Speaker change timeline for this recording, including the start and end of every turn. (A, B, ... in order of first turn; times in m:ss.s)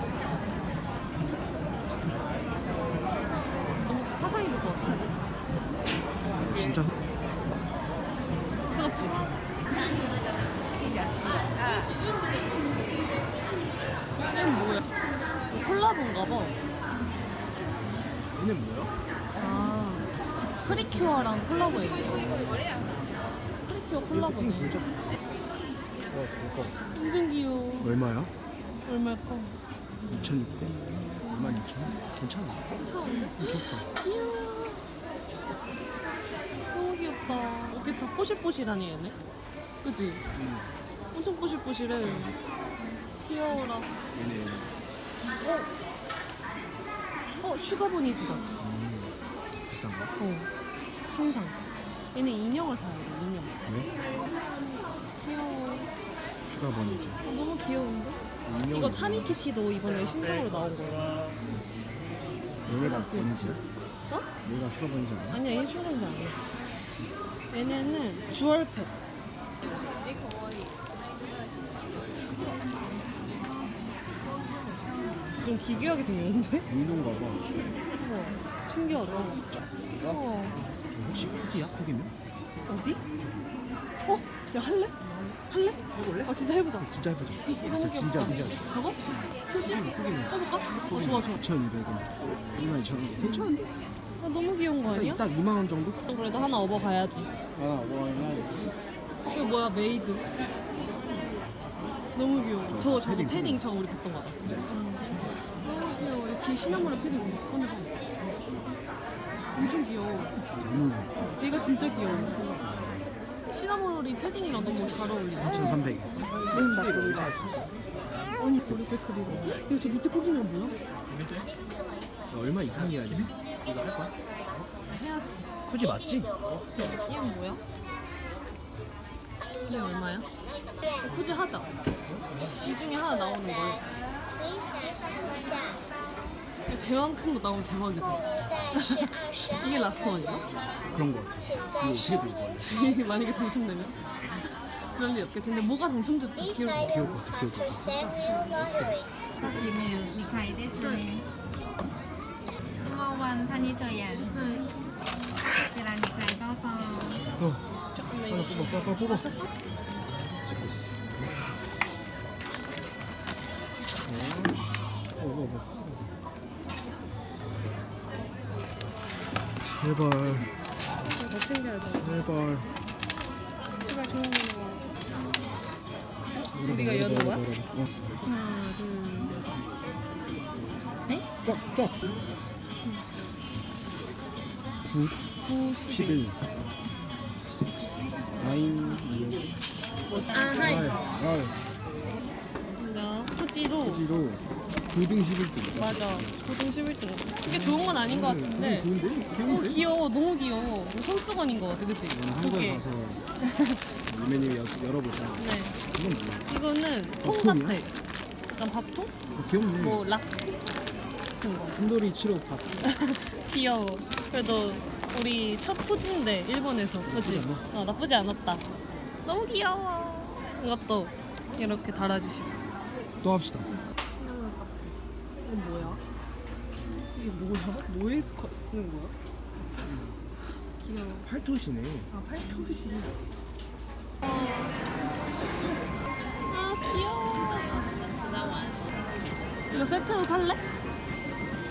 0:03.8-0:05.2 A
0:06.4-0:06.9 B
0:06.5-0:06.8 A
0:08.7-0:09.3 A
0:14.3-0:14.8 A
0:15.5-0:16.6 A
0:18.3-0:18.9 B
0:19.4-0:20.1 A
0:20.6-0:22.3 A
0:20.7-0:20.9 B
0:22.1-0:22.6 B
0:23.7-0:24.8 A
0:24.1-0:24.9 B
0:26.1-0:26.8 B
0:26.9-0:27.9 A
0:27.8-0:28.3 B
0:28.8-0:29.6 A
0:30.1-0:32.7 B
0:30.9-0:31.6 A
0:32.7-0:34.9 A
0:33.4-0:33.9 B
0:36.7-0:39.2 A
0:39.8-0:40.2 A
0:40.3-0:40.7 B
0:41.1-0:42.3 A
0:43.2-0:43.9 A
0:44.1-0:44.7 B
0:45.3-0:45.7 A
0:47.4-0:48.5 A
0:48.6-0:50.1 B
0:50.2-0:50.5 A
0:51.0-0:51.6 A
0:52.1-0:53.6 A
0:55.2-0:55.9 A
0:56.4-0:57.2 B
0:57.2-0:58.2 A
0:58.4-0:59.4 B
0:58.7-1:01.2 A
1:02.6-1:03.6 B
1:02.8-1:04.3 A
1:04.4-1:05.4 B
1:05.3-1:06.4 A
1:07.5-1:08.9 A
1:15.4-1:16.7 A
1:16.7-1:17.4 B
1:17.9-1:19.4 A
1:19.8-1:20.2 B
1:20.0-1:20.6 A
1:20.9-1:22.1 B
1:22.7-1:23.0 A
1:24.0-1:26.9 A
1:25.9-1:33.6 B
1:27.4-1:31.4 A
1:33.2-1:33.5 A
1:34.2-1:35.2 A
1:34.9-1:36.0 B
1:36.1-1:37.3 A
1:37.6-1:38.7 B
1:39.2-1:40.2 A
1:42.1-1:47.9 A
1:42.6-1:43.6 B
1:44.4-1:44.7 B
1:49.5-1:50.3 A
1:50.5-1:53.1 B
1:51.3-1:52.5 A
1:53.5-1:55.8 A
1:55.4-1:57.8 B
1:56.5-1:57.3 A
1:58.4-2:00.8 A
1:58.6-1:59.5 B
2:01.1-2:01.5 B
2:02.3-2:04.7 B
2:04.9-2:05.4 A
2:05.7-2:06.6 B
2:06.8-2:07.6 A
2:09.6-2:10.3 A
2:11.0-2:11.7 A
2:11.0-2:11.3 B
2:11.9-2:12.6 B
2:12.6-2:13.8 A
2:16.7-2:20.4 A
2:20.9-2:22.7 B
2:22.6-2:24.0 A
2:24.8-2:26.9 A
2:26.8-2:29.0 B
2:28.2-2:28.6 A
2:29.4-2:31.3 C
2:30.8-2:31.0 A
2:32.8-2:34.4 C
2:34.2-2:34.7 A
2:35.6-2:37.2 C
2:37.9-2:39.5 A
2:38.3-2:39.3 B
2:40.4-2:41.6 B
2:44.0-2:44.6 B
2:45.2-2:46.0 B
2:49.7-2:50.5 B
2:51.0-2:52.2 A
2:52.0-2:52.7 B
2:53.8-2:54.9 A
2:56.4-2:57.5 A
2:56.5-2:58.0 B
2:58.2-2:59.4 A
3:01.4-3:01.9 B
3:04.9-3:05.2 B
3:05.4-3:06.2 A
3:05.8-3:06.4 B
3:08.4-3:09.5 B
3:10.1-3:11.0 A
3:10.1-3:11.6 B
3:12.8-3:14.0 A
3:13.8-3:16.5 B
3:15.7-3:22.8 A
3:17.4-3:19.8 B
3:22.1-3:23.2 B
3:23.4-3:23.8 A
3:24.1-3:26.5 B
3:25.4-3:25.8 A
3:26.4-3:27.9 A
3:27.2-3:27.8 B
3:28.5-3:29.1 A
3:29.3-3:30.0 B
3:29.7-3:30.3 A
3:31.4-3:31.8 A
3:31.7-3:32.8 B
3:32.8-3:38.6 A
3:37.0-3:37.6 B
3:39.2-3:42.6 A
3:43.2-3:43.7 B
3:44.1-3:46.0 A
3:47.1-3:49.2 A
3:49.8-3:50.2 B
3:50.8-3:51.3 A
3:51.2-3:52.1 B
3:52.1-3:53.2 A
3:54.2-3:54.8 A
3:56.5-3:57.9 A
3:59.7-4:00.6 A